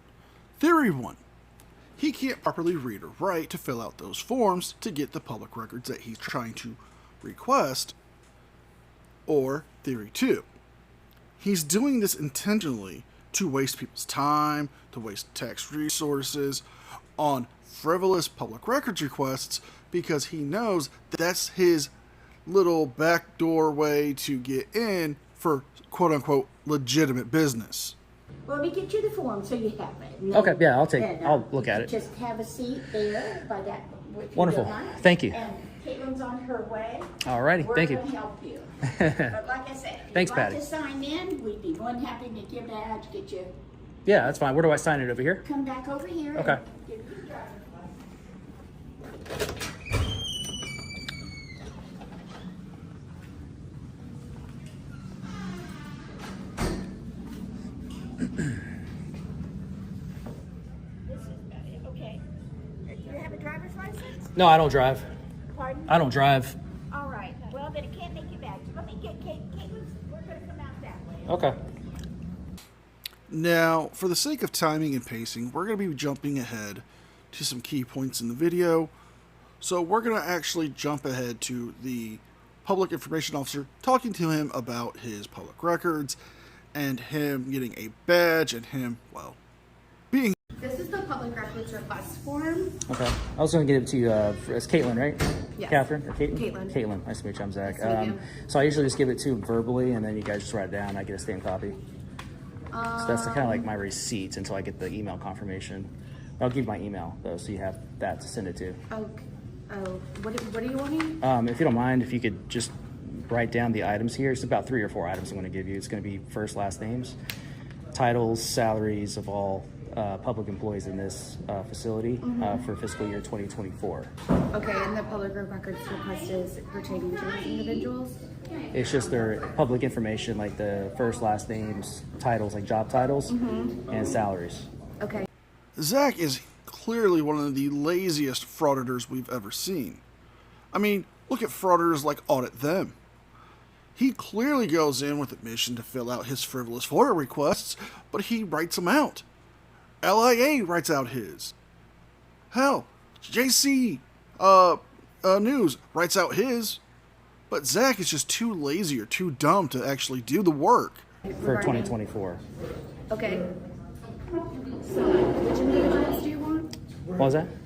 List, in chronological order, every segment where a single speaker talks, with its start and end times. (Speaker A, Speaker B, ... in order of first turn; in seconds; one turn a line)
Speaker A: 0.6-1.2
Speaker A: 2.0-8.0
Speaker A: 9.3-10.4
Speaker A: 11.4-16.6
Speaker A: 17.2-21.9
Speaker A: 22.4-28.0
Speaker B: 28.4-38.7
Speaker C: 30.3-31.9
Speaker C: 34.4-35.4
Speaker C: 37.2-38.1
Speaker C: 38.8-39.3
Speaker B: 39.3-43.5
Speaker C: 40.1-40.6
Speaker C: 44.0-45.4
Speaker B: 45.5-47.7
Speaker C: 46.3-46.6
Speaker B: 61.1-62.2
Speaker B: 62.9-64.3
Speaker C: 64.3-65.1
Speaker B: 65.5-66.0
Speaker C: 65.9-66.6
Speaker B: 66.9-71.3
Speaker C: 71.2-71.6
Speaker A: 73.3-78.9
Speaker A: 79.6-86.2
Speaker A: 86.7-89.4
Speaker A: 90.1-90.4
Speaker D: 90.6-92.8
Speaker C: 92.9-101.8
Speaker D: 95.6-96.8
Speaker D: 97.7-98.3
Speaker D: 102.7-103.7
Speaker C: 103.0-105.9
Speaker C: 106.4-108.8
Speaker D: 108.9-111.2
Speaker C: 111.2-117.2
Speaker C: 117.9-124.1
Speaker D: 122.2-122.6
Speaker D: 124.5-128.2
Speaker C: 128.7-133.4
Speaker D: 133.3-133.9
Speaker C: 133.9-134.7
Speaker D: 135.0-135.3
Speaker A: 135.8-140.0
Speaker A: 140.7-142.9
Speaker A: 143.9-149.2
Speaker A: 150.0-151.5
Speaker A: 152.5-156.8
Speaker A: 157.5-161.0
Speaker D: 161.3-161.9
Speaker C: 161.4-162.4
Speaker D: 163.1-163.5
Speaker D: 164.8-166.7
Speaker C: 167.2-167.5